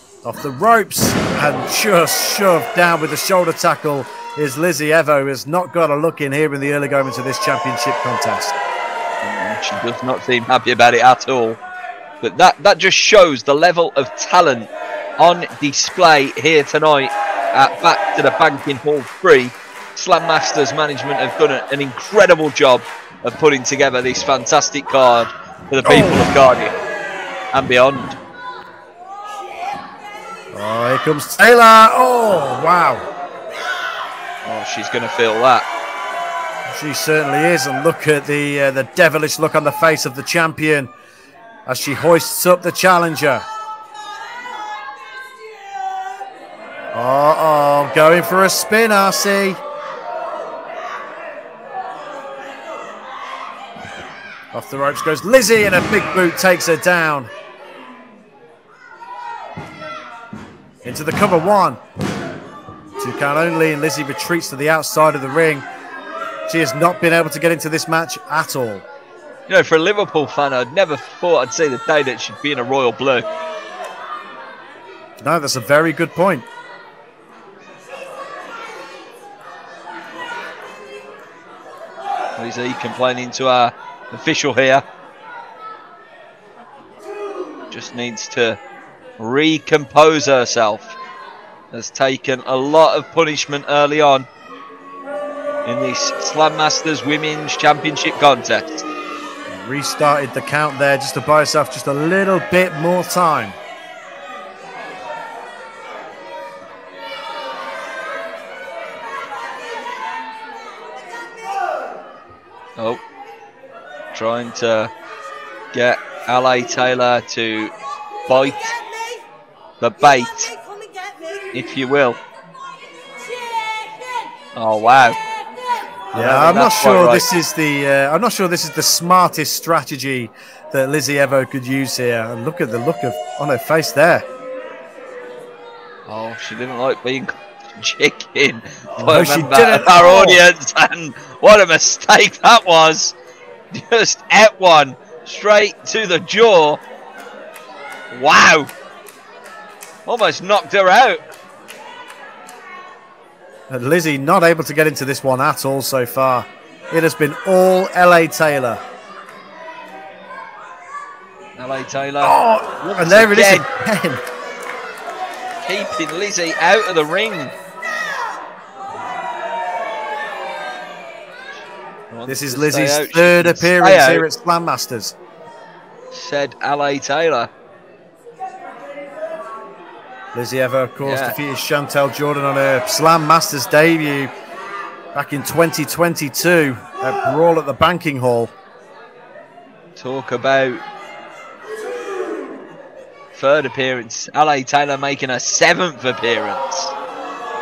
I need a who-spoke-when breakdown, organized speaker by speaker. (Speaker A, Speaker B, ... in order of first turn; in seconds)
Speaker A: 0.2-8.6, 25.8-26.3, 30.5-33.0, 36.7-40.9, 41.6-43.5, 46.9-49.6, 54.5-57.3, 60.8-61.8, 63.0-65.7, 66.5-68.8, 75.2-76.5, 99.5-103.6, 126.1-134.3, 139.0-140.4, 153.7-158.8, 162.2-164.2, 172.2-175.1, 180.3-184.3, 185.1-188.5
Speaker B: 9.2-11.6, 12.2-26.7, 27.5-28.1, 34.4-35.6, 69.5-73.3, 82.3-84.8, 87.7-88.6, 89.2-91.0, 91.7-94.3, 95.7-98.9, 112.8-113.0, 114.1-114.9, 115.7-117.7, 118.3-118.8, 119.8-120.5, 121.5-122.2, 124.5-125.2, 126.1-127.2, 136.1-143.2, 143.7-146.8, 148.1-148.7, 150.1-151.2, 161.6-163.6, 165.6-167.6, 172.1-174.3, 176.1-177.5, 181.0-181.3, 190.0-190.8, 193.3-196.9